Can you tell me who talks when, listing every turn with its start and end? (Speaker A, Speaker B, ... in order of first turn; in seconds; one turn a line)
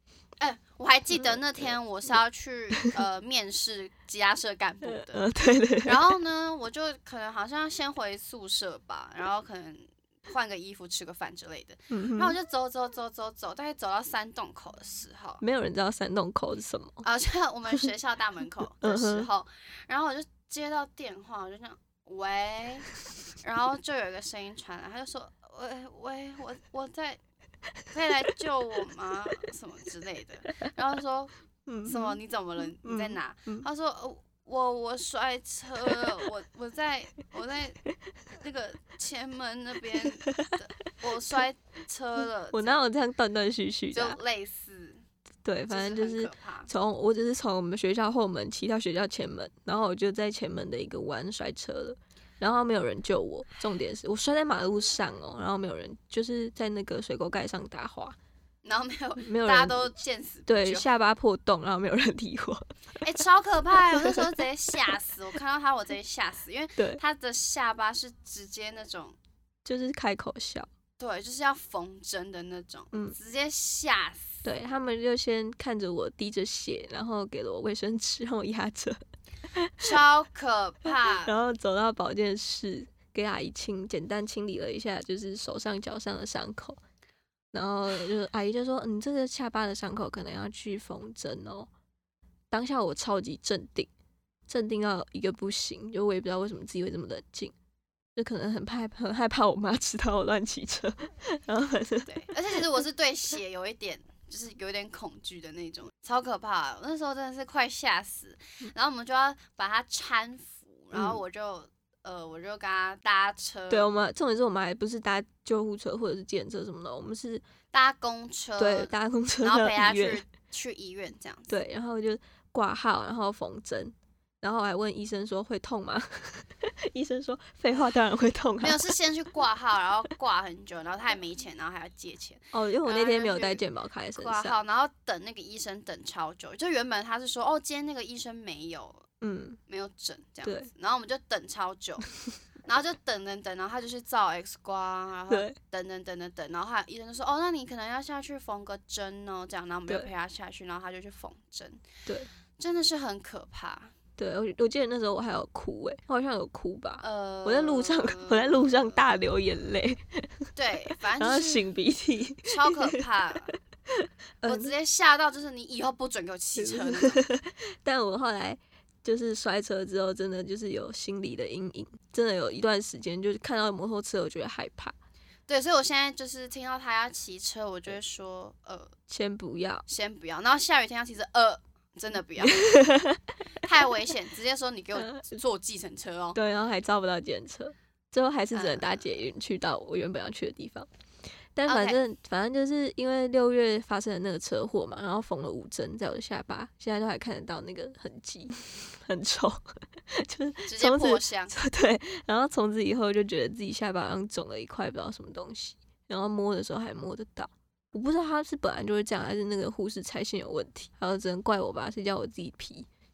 Speaker A: 0.4-5.2
Speaker B: 1.2-1.7
Speaker B: 2.7-3.0
Speaker B: 4.8-6.1
Speaker A: 5.8-15.4
Speaker B: 11.9-12.3
Speaker B: 15.4-17.0
Speaker A: 17.0-22.9
Speaker B: 18.8-19.3
Speaker A: 23.4-27.2
Speaker A: 27.9-31.3
Speaker B: 31.7-32.2
Speaker A: 31.8-37.8
Speaker B: 32.7-33.6
Speaker A: 38.4-42.8
Speaker B: 40.2-40.9
Speaker B: 42.5-44.2
Speaker A: 43.9-45.0
Speaker B: 45.4-58.1
Speaker A: 45.7-46.7
Speaker A: 58.6-60.9
Speaker B: 59.2-59.9
Speaker B: 60.5-62.6
Speaker A: 63.0-69.2
Speaker B: 69.6-70.7
Speaker A: 71.0-74.4
Speaker B: 74.4-79.0
Speaker B: 79.5-80.0
Speaker A: 79.8-81.3
Speaker B: 81.2-86.8
Speaker B: 87.5-91.7
Speaker B: 92.5-93.9
Speaker B: 94.5-97.5
Speaker B: 98.2-102.1
Speaker A: 102.1-113.8
Speaker B: 110.9-111.2
Speaker B: 113.7-117.4
Speaker A: 117.7-118.9
Speaker B: 118.6-120.2
Speaker A: 119.4-121.5
Speaker B: 121.5-128.8
Speaker A: 128.6-133.6
Speaker B: 132.5-134.6
Speaker A: 134.2-139.1
Speaker B: 139.2-139.6
Speaker A: 139.7-142.1
Speaker B: 140.4-140.7
Speaker A: 142.7-151.8
Speaker B: 145.3-145.6
Speaker A: 152.6-153.9
Speaker B: 154.2-160.5
Speaker A: 157.0-158.9
Speaker A: 160.6-161.7
Speaker B: 161.2-164.7
Speaker A: 162.5-163.5
Speaker A: 164.4-167.2
Speaker B: 166.6-174.9
Speaker A: 175.5-178.9
Speaker B: 179.1-179.8
Speaker A: 179.9-182.7
Speaker B: 182.4-183.2
Speaker A: 183.6-186.4
Speaker B: 185.0-185.4
Speaker B: 186.3-190.9
Speaker A: 188.5-189.0
Speaker B: 191.5-199.6
Speaker A: 191.7-192.0
Speaker B: 200.1-212.9
Speaker A: 200.7-201.5